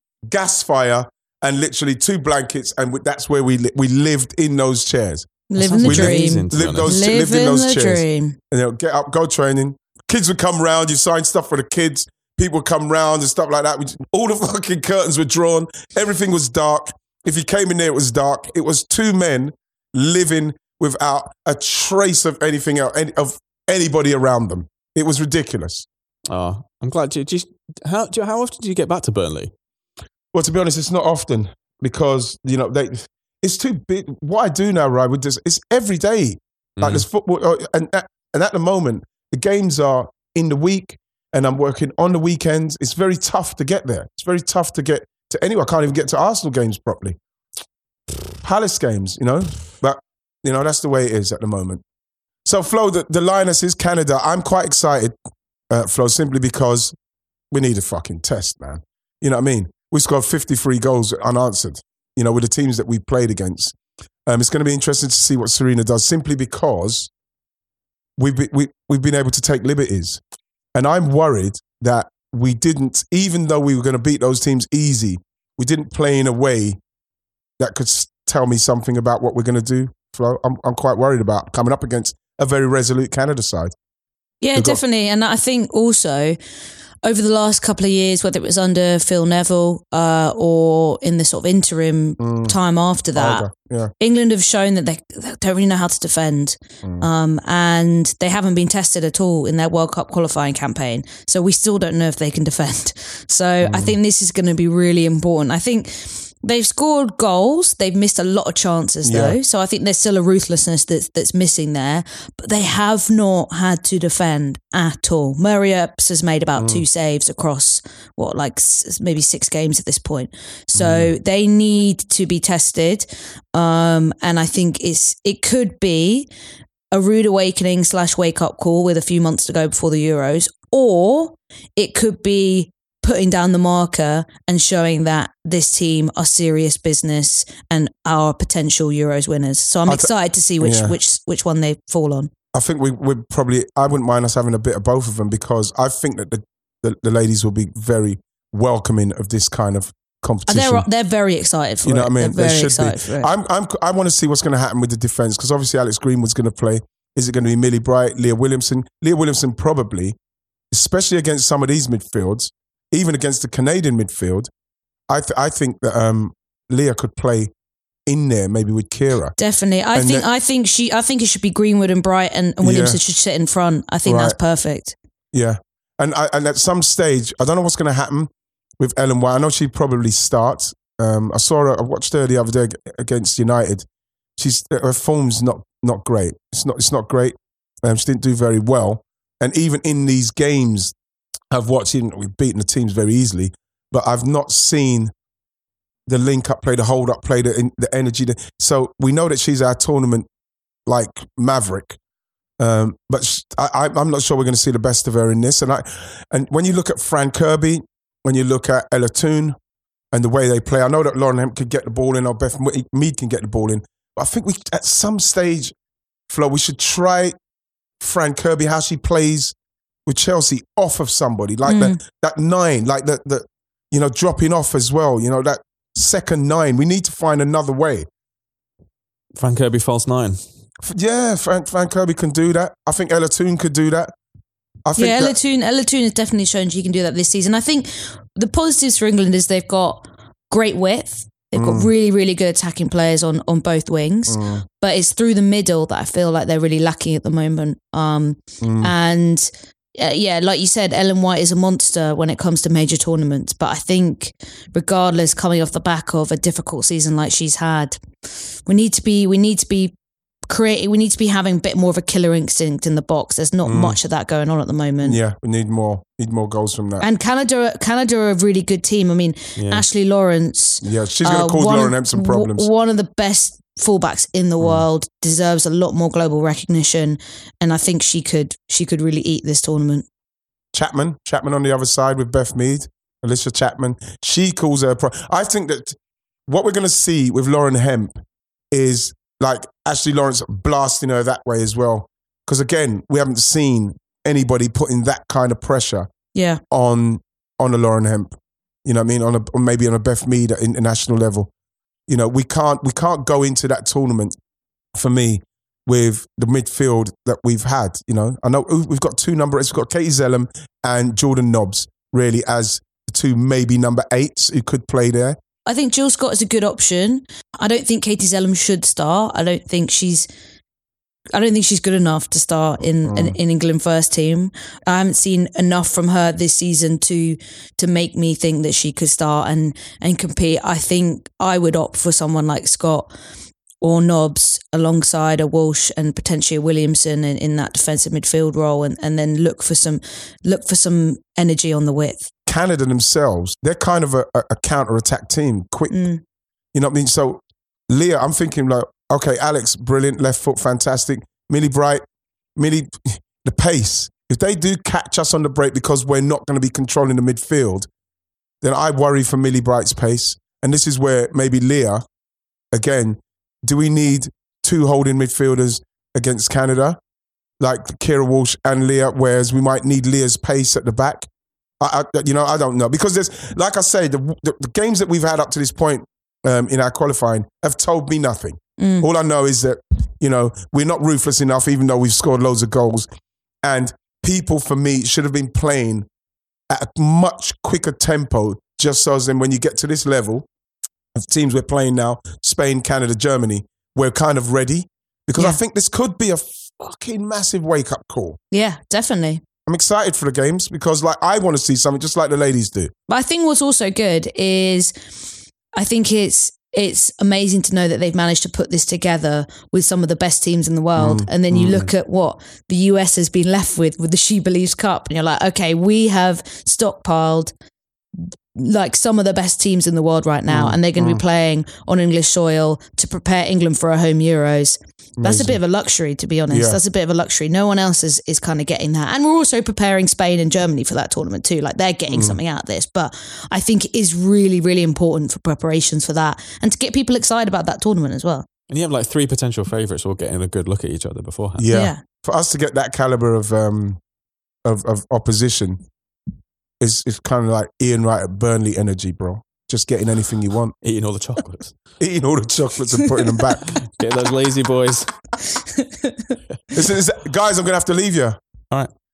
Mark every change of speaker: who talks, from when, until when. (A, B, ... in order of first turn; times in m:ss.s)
0:00.2-0:25.9 A
0:05.5-0:08.4 B
0:05.6-0:06.9 C
0:26.3-0:29.5 C
0:30.3-0:47.2 A
0:36.8-0:37.0 C
0:48.4-0:51.8 A
0:52.4-0:55.1 A
0:55.7-0:57.0 A
0:57.5-1:07.1 A
1:08.2-1:10.2 A
1:10.7-1:16.8 A
1:17.6-1:23.7 A
1:24.4-1:26.4 B
1:24.6-1:24.8 A
1:27.0-1:33.5 B
1:32.2-1:32.6 A
1:33.1-1:33.9 A
1:34.0-2:06.3 B
1:36.8-1:37.1 A
1:43.6-1:44.0 A
1:49.0-1:49.4 A
1:56.6-1:56.8 A
2:00.7-2:01.1 A
2:06.9-2:22.3 B
2:19.9-2:21.0 A
2:22.5-2:30.9 A
2:30.5-2:33.3 B
2:31.8-2:40.2 A
2:40.7-2:44.5 A
2:45.1-2:47.5 A
2:48.0-2:49.3 A
2:49.4-2:55.0 B
2:49.9-2:50.3 A
2:52.6-2:53.0 A
2:54.0-2:54.4 A
2:55.3-3:03.9 A
3:04.4-3:11.0 A
3:11.5-3:15.1 A
3:16.1-3:20.3 A
3:20.9-3:22.0 A
3:22.6-3:29.6 A
3:30.1-3:35.7 A
3:36.3-3:37.4 A
3:38.0-3:39.6 A
3:40.0-3:48.1 A
3:41.6-3:42.0 B
3:49.4-3:50.6 C
3:50.8-3:54.1 A
3:54.8-3:55.4 A
3:55.0-4:18.0 B
4:01.5-4:01.9 A
4:04.3-4:04.6 A
4:08.6-4:08.9 A
4:18.6-4:19.9 B
4:20.5-4:25.2 B
4:23.6-4:24.0 A
4:25.0-4:27.1 A
4:27.0-4:40.0 B
4:29.6-4:29.9 C
4:30.8-4:32.7 A
4:34.6-4:34.8 A
4:40.7-4:48.2 A
4:48.7-4:56.1 A
4:56.3-4:56.6 B
4:56.7-4:58.3 A
4:58.8-5:01.5 A
5:02.1-5:04.4 A
5:05.0-5:15.4 A
5:15.6-5:20.3 B
5:21.3-5:33.1 B
5:23.0-5:23.4 A
5:33.8-5:42.3 B
5:42.5-5:46.0 A
5:45.9-5:46.2 B
5:46.7-5:52.0 A
5:52.6-5:57.9 A
5:58.6-6:02.0 A
6:02.7-6:07.0 A
6:07.6-6:11.3 A
6:11.8-6:23.1 A
6:18.8-6:19.1 B
6:23.6-6:26.1 A
6:26.7-6:30.5 A
6:31.1-6:38.4 A
6:38.5-6:39.4 B
6:39.6-6:42.9 A
6:43.1-6:45.0 B
6:45.8-6:57.5 B
6:51.0-6:51.9 A
6:58.2-7:18.4 B
7:00.5-7:01.2 A
7:05.2-7:05.6 A
7:06.5-7:06.8 A
7:12.1-7:12.4 A
7:18.7-7:21.7 C
7:21.6-7:24.0 A
7:21.7-7:22.0 B
7:24.6-7:25.8 A
7:26.8-7:30.7 A
7:30.8-7:31.8 C
7:32.0-7:33.7 A
7:33.8-7:35.1 C
7:35.8-7:36.3 B
7:36.7-7:38.4 A